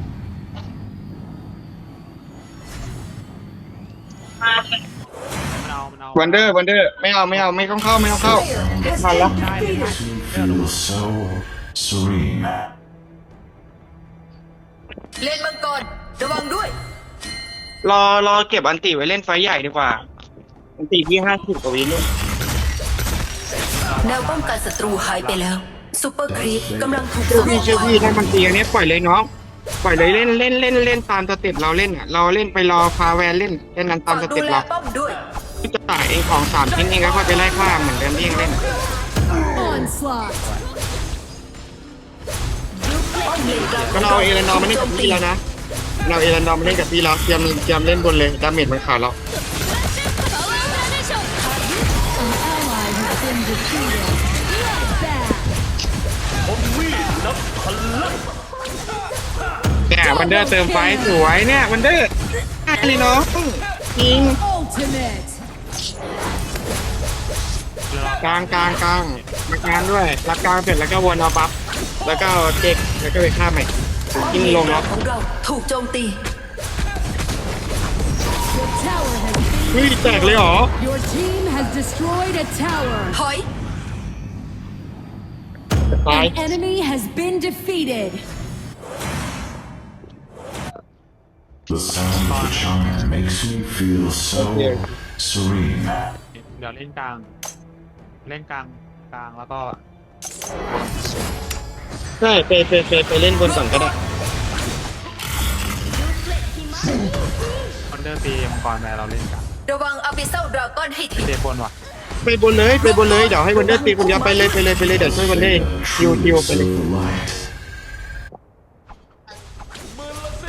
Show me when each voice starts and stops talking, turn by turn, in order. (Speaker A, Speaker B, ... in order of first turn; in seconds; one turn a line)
Speaker A: 4.4-4.8
Speaker B: 5.5-6.6
Speaker A: 6.1-8.5
Speaker C: 8.0-12.5
Speaker A: 9.0-9.3
Speaker B: 9.2-10.7
Speaker D: 15.2-16.7
Speaker A: 17.8-20.0
Speaker A: 20.8-22.0
Speaker B: 23.8-25.5
Speaker D: 24.0-28.0
Speaker C: 26.3-28.5
Speaker A: 27.3-29.3
Speaker A: 29.8-34.7
Speaker D: 34.0-35.2
Speaker A: 35.6-38.6
Speaker E: 39.5-40.4
Speaker B: 40.3-40.7
Speaker D: 42.8-45.2
Speaker B: 43.3-44.1
Speaker A: 43.9-45.4
Speaker A: 46.0-49.2
Speaker D: 51.3-51.8
Speaker E: 52.2-55.5
Speaker A: 59.9-62.1
Speaker E: 60.1-61.1
Speaker A: 62.7-64.4
Speaker E: 64.4-65.3
Speaker B: 67.9-69.2
Speaker A: 68.2-71.5
Speaker A: 72.0-74.9
Speaker D: 74.2-76.2
Speaker E: 78.5-83.2
Speaker A: 79.7-80.7
Speaker D: 83.1-83.4
Speaker A: 85.9-86.4
Speaker E: 86.1-88.2
Speaker C: 91.7-95.9
Speaker B: 92.2-92.8
Speaker A: 94.3-94.8
Speaker B: 96.3-97.3
Speaker B: 98.2-99.8
Speaker B: 100.7-101.0
Speaker A: 102.2-103.9
Speaker D: 106.1-107.0
Speaker B: 107.9-109.4
Speaker D: 109.7-111.3
Speaker B: 111.2-111.7
Speaker A: 112.2-116.7
Speaker D: 112.8-114.6
Speaker C: 114.9-117.4